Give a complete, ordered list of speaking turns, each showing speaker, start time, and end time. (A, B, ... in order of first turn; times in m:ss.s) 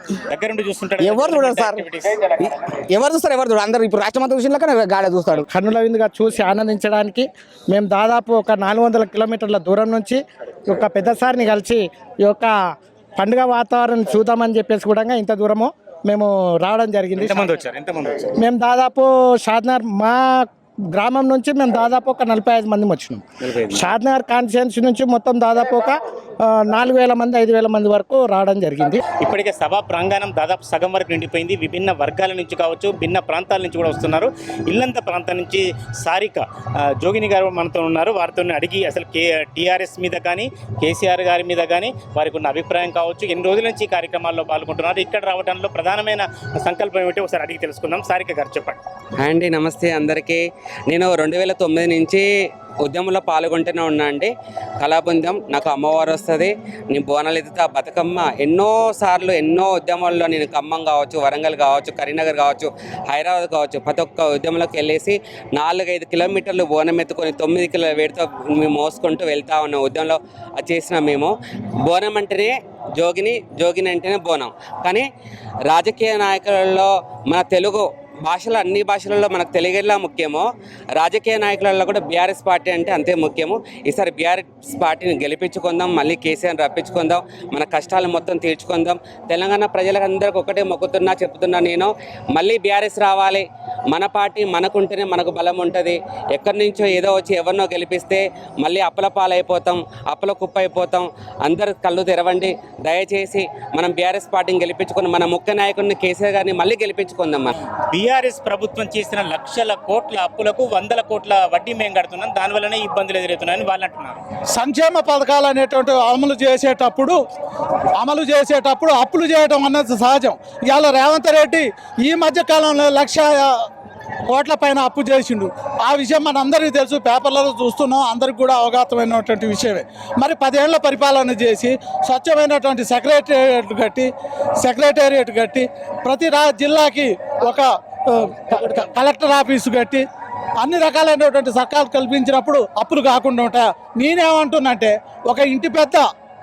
0:00.3-0:02.2 A
0:01.0-0:01.8 B
0:02.4-0:05.4 B
0:05.5-0:12.5 C
0:13.2-0:17.5 C
0:17.2-0:18.3 A
0:18.4-0:20.2 C
0:20.9-0:29.0 C
0:23.4-0:23.9 A
0:29.2-0:36.4 A
0:37.0-0:48.8 A
0:49.2-0:52.3 D
0:52.8-1:11.3 D
1:11.8-1:15.1 D
1:15.7-1:47.6 D
1:47.9-1:54.2 A
1:54.5-1:57.2 E
1:58.0-2:03.5 E
2:04.3-2:14.1 E
2:14.6-2:20.0 E
2:20.6-2:26.1 E